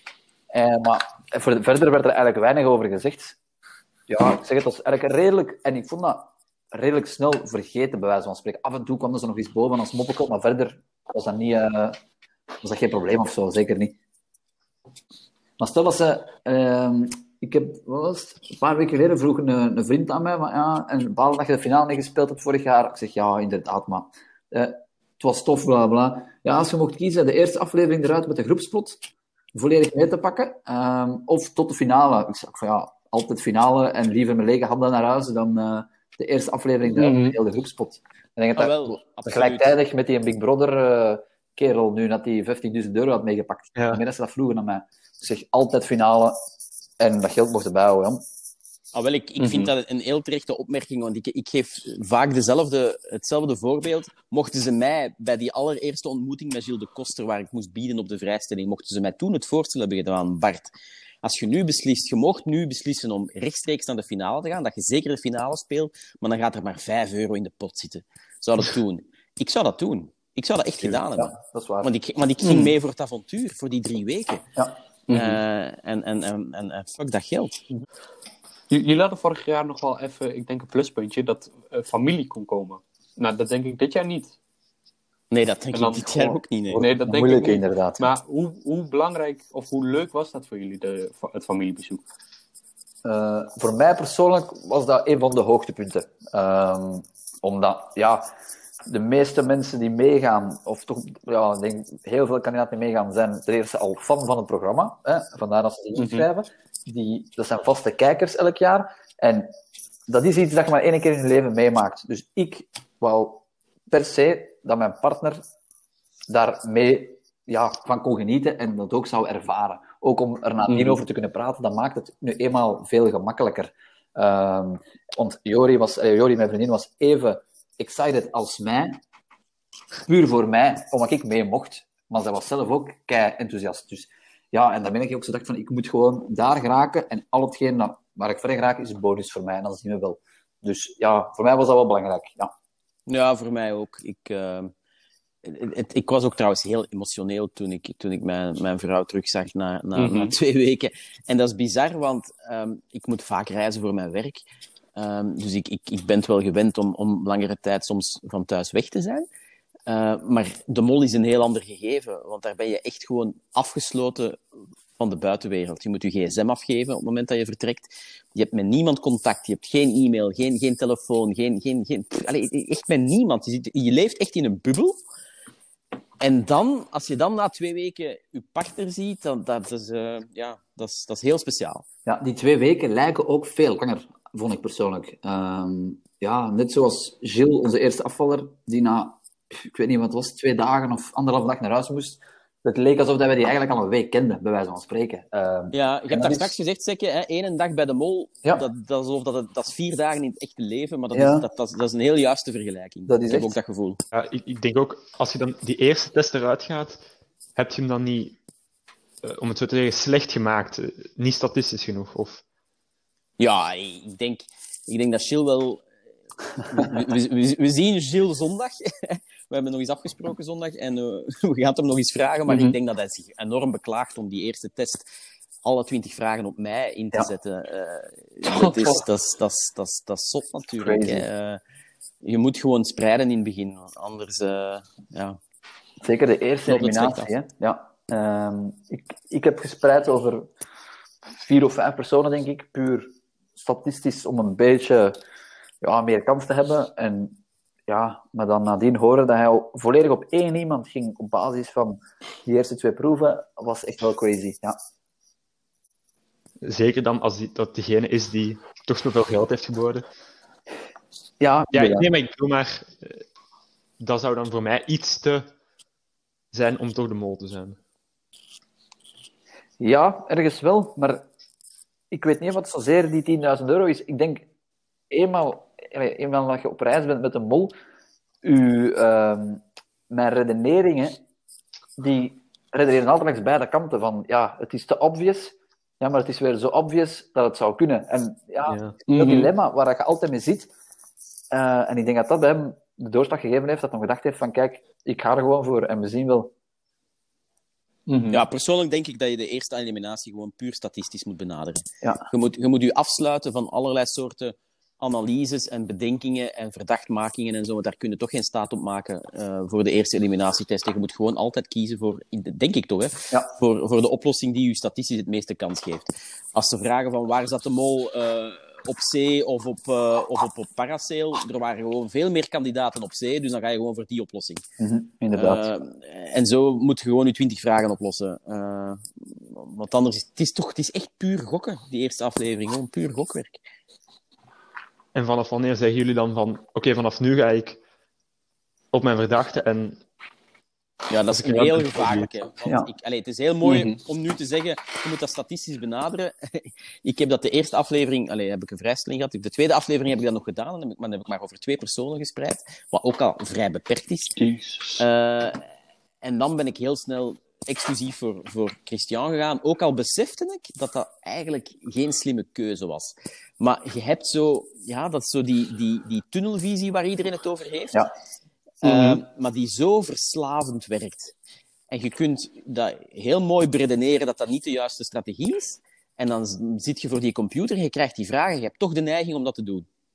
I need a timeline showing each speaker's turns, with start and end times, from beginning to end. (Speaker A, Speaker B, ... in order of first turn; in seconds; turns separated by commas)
Speaker A: 0.5-3.4, Speaker A: 4.1-12.0, Speaker A: 12.6-13.9, Speaker A: 15.6-29.0, Speaker A: 29.5-46.4, Speaker B: 36.9-37.4, Speaker C: 38.5-39.8, Speaker D: 43.8-44.0, Speaker A: 47.0-48.2, Speaker C: 48.9-60.7, Speaker B: 49.4-49.7, Speaker C: 61.2-74.4, Speaker A: 71.2-71.9, Speaker B: 72.4-72.7, Speaker B: 75.1-75.4, Speaker C: 75.1-77.6, Speaker B: 78.7-84.3, Speaker C: 85.3-86.8, Speaker B: 85.7-92.0, Speaker A: 86.7-88.0, Speaker A: 93.0-98.3, Speaker A: 98.9-109.5, Speaker B: 106.0-106.3, Speaker A: 110.1-115.4, Speaker A: 116.3-129.0, Speaker B: 120.7-121.0, Speaker A: 130.1-142.5, Speaker C: 143.1-144.7, Speaker C: 145.4-154.4, Speaker B: 149.9-150.3, Speaker C: 154.9-159.3, Speaker C: 159.9-164.4, Speaker C: 165.0-174.9, Speaker C: 176.2-181.8, Speaker A: 182.1-196.5, Speaker C: 195.7-204.0, Speaker A: 201.1-201.4, Speaker A: 203.1-203.6, Speaker D: 204.1-207.0, Speaker D: 207.6-208.4, Speaker D: 209.2-212.4, Speaker C: 213.4-215.8, Speaker C: 216.6-225.1, Speaker B: 222.5-222.8, Speaker C: 225.6-231.6, Speaker B: 228.5-229.0, Speaker A: 230.8-231.2, Speaker C: 232.2-235.4, Speaker A: 236.0-240.5, Speaker C: 236.7-237.3, Speaker A: 241.3-245.2, Speaker A: 245.8-254.8, Speaker D: 256.6-260.0, Speaker A: 261.4-262.1, Speaker D: 261.7-263.2, Speaker D: 264.0-265.5, Speaker D: 266.5-267.8, Speaker A: 269.8-271.2, Speaker A: 272.1-274.4, Speaker A: 275.1-277.7, Speaker A: 278.4-281.2, Speaker A: 282.0-290.7, Speaker D: 288.7-288.9, Speaker B: 289.1-289.5, Speaker A: 291.5-296.5, Speaker B: 298.1-298.4, Speaker C: 298.3-324.6, Speaker A: 324.8-325.7, Speaker C: 325.3-333.6, Speaker D: 335.1-337.8, Speaker D: 338.9-340.0, Speaker C: 341.1-354.4, Speaker D: 341.3-342.3, Speaker A: 342.6-342.9, Speaker B: 343.6-344.0, Speaker A: 354.4-355.0, Speaker C: 355.0-355.6, Speaker C: 356.2-368.0, Speaker A: 368.8-369.2, Speaker C: 368.8-371.3, Speaker C: 371.9-379.9